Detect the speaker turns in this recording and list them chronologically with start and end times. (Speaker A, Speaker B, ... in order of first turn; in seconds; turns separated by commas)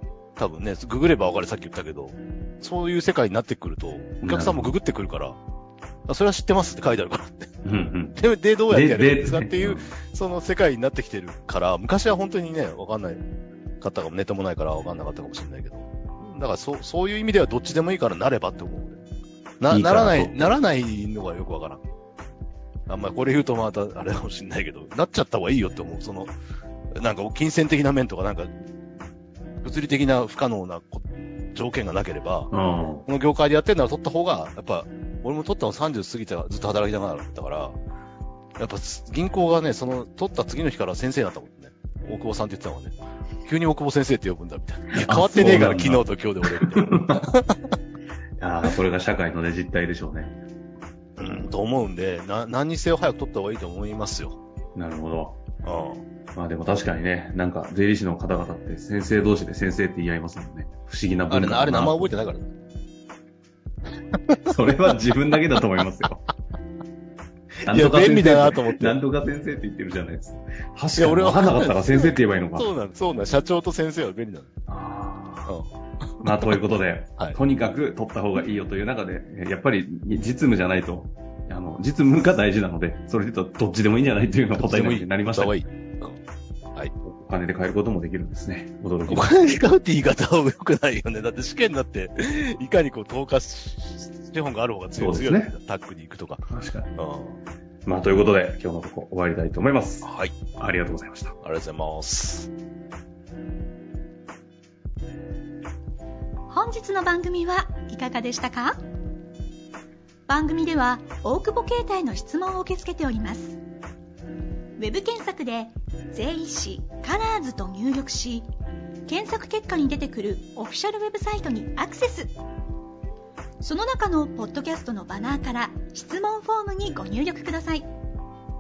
Speaker A: 0.4-5.4, Speaker B: 4.2-4.8, Speaker A: 6.1-7.5, Speaker B: 7.7-9.9, Speaker A: 8.2-13.2, Speaker A: 13.8-19.0, Speaker A: 19.6-21.8, Speaker B: 19.7-20.6, Speaker A: 22.9-26.3, Speaker A: 26.9-28.5, Speaker A: 29.6-32.5, Speaker B: 32.5-33.1, Speaker A: 33.0-37.8, Speaker A: 38.6-47.6, Speaker B: 45.0-46.0, Speaker B: 46.6-47.2, Speaker B: 48.4-50.4, Speaker A: 51.2-54.4, Speaker B: 54.8-55.4, Speaker A: 55.6-56.0, Speaker B: 56.3-62.2, Speaker A: 61.3-62.5, Speaker A: 64.3-64.5, Speaker B: 64.5-66.2, Speaker B: 67.7-72.7, Speaker A: 67.7-69.0, Speaker A: 71.0-74.5, Speaker B: 74.7-75.5, Speaker B: 76.2-85.6, Speaker A: 84.5-86.2, Speaker B: 87.0-89.5, Speaker A: 89.1-97.4, Speaker B: 95.0-95.5, Speaker B: 96.5-96.9, Speaker B: 97.8-101.4, Speaker A: 100.0-100.4, Speaker A: 101.4-102.5, Speaker C: 106.5-108.8, Speaker C: 110.3-113.6, Speaker C: 114.8-118.5, Speaker C: 119.1-122.3, Speaker C: 123.6-127.9